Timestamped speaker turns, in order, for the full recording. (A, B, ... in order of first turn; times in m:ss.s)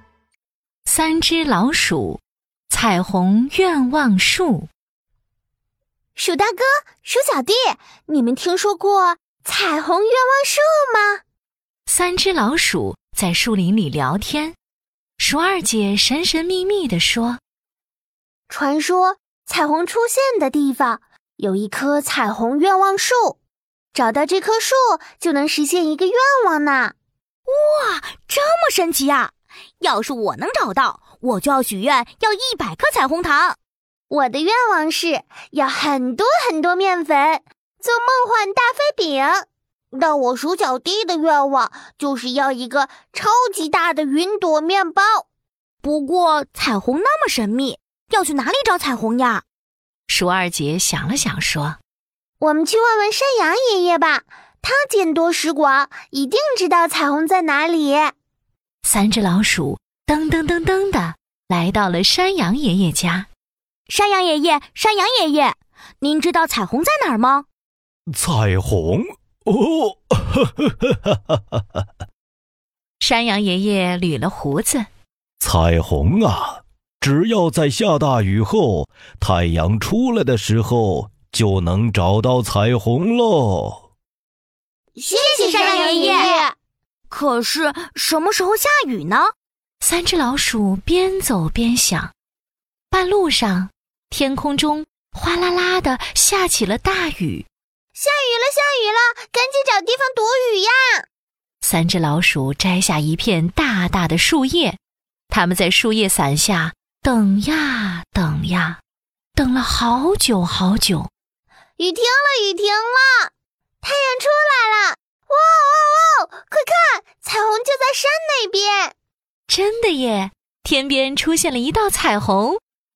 0:00.9-0:04.7 A
0:06.2-0:11.2 B
0:11.9-0:14.6 A
0:15.2-0:17.4 A
0:18.5-0:23.4 B
0:23.9-0:27.0 B
0:27.5-0:33.6 C
0:34.1-0:45.3 B
0:45.8-0:49.4 C
0:50.1-0:51.8 A
0:52.4-0:58.1 B
0:58.8-1:03.3 A
1:03.9-1:07.5 C
1:08.1-1:11.1 D
1:13.0-1:14.9 A
1:15.4-1:23.8 D
1:25.0-1:26.6 B
1:25.1-1:26.4 C
1:27.1-1:29.3 C
1:29.8-1:32.1 A
1:32.9-1:37.5 A
1:37.9-1:41.1 B
1:41.6-1:48.8 A
1:49.4-1:51.1 A
1:51.8-1:53.3 B
1:53.8-1:58.9 B
1:59.5-2:02.6 A